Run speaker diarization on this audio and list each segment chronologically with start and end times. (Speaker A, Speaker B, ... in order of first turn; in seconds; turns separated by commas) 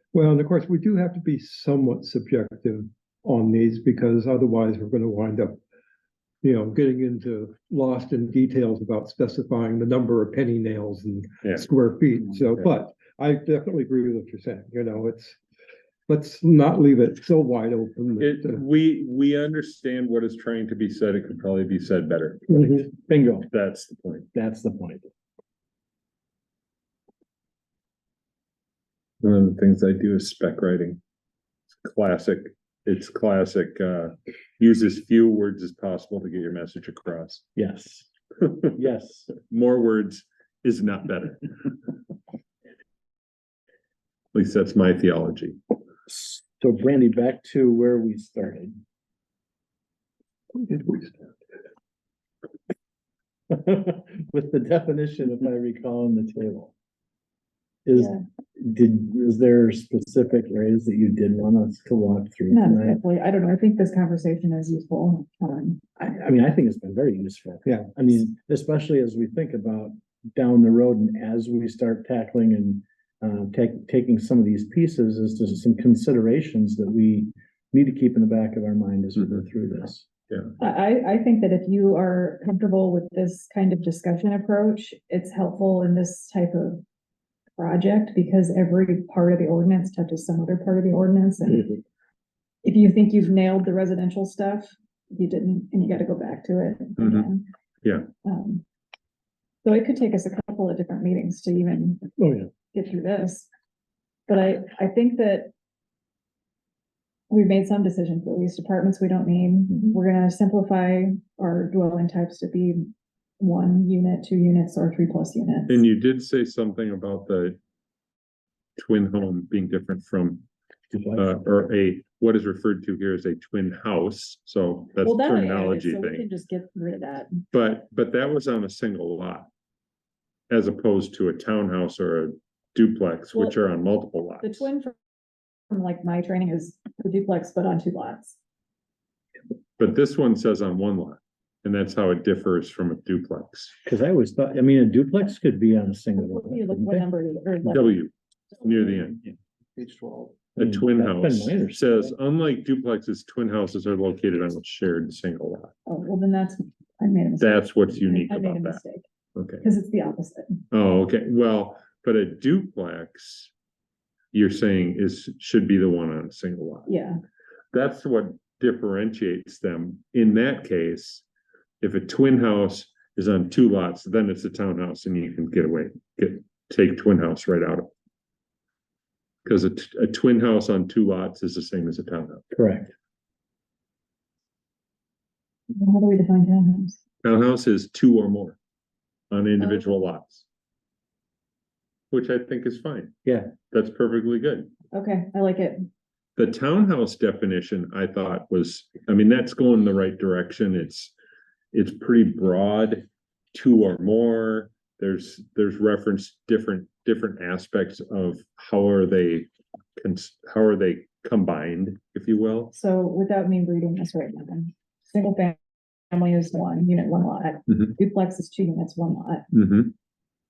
Speaker A: 0.1-5.6, Speaker A: 6.4-15.4, Speaker A: 16.1-18.6, Speaker B: 18.2-22.8, Speaker C: 22.5-23.5, Speaker B: 23.5-24.3, Speaker C: 24.3-25.1, Speaker B: 29.2-31.0, Speaker B: 31.8-37.5, Speaker C: 37.6-38.1, Speaker B: 38.5-38.7, Speaker C: 38.7-39.3, Speaker B: 39.4-41.8, Speaker B: 44.3-45.6, Speaker C: 46.1-48.8, Speaker A: 50.6-51.1, Speaker C: 53.5-56.7, Speaker C: 57.9-63.0, Speaker D: 58.0-58.2, Speaker D: 62.5-65.8, Speaker C: 66.0-80.1, Speaker A: 67.7-67.9, Speaker D: 80.6-86.8, Speaker D: 87.6-91.8, Speaker D: 92.6-97.5, Speaker B: 97.0-97.3, Speaker D: 98.2-98.7, Speaker D: 99.6-102.1, Speaker D: 102.7-103.5, Speaker D: 104.3-105.5, Speaker D: 107.3-115.8, Speaker B: 115.7-117.6, Speaker B: 118.8-120.5, Speaker C: 120.9-121.5, Speaker B: 121.2-126.3, Speaker D: 125.0-127.4, Speaker B: 127.5-129.5, Speaker B: 130.5-134.7, Speaker D: 134.4-135.0, Speaker D: 135.7-138.4, Speaker B: 139.8-143.8, Speaker C: 143.8-147.1, Speaker D: 146.2-148.1, Speaker B: 147.6-149.2, Speaker A: 149.8-150.3, Speaker B: 150.6-155.7, Speaker C: 150.6-152.1, Speaker D: 155.9-159.0, Speaker B: 157.4-158.8, Speaker B: 159.4-159.7, Speaker D: 159.6-160.6, Speaker B: 160.7-163.5, Speaker B: 164.3-166.9, Speaker D: 166.9-167.2, Speaker B: 167.7-171.2, Speaker B: 171.8-177.9, Speaker B: 179.4-182.4, Speaker C: 182.5-182.9, Speaker D: 185.7-187.0, Speaker B: 187.2-188.6, Speaker B: 189.3-190.4, Speaker D: 189.6-189.9, Speaker B: 192.1-194.7, Speaker C: 193.2-193.5, Speaker D: 194.9-195.8, Speaker B: 196.4-201.1, Speaker B: 201.7-212.7, Speaker D: 212.7-215.6, Speaker D: 216.1-219.5, Speaker B: 219.5-219.9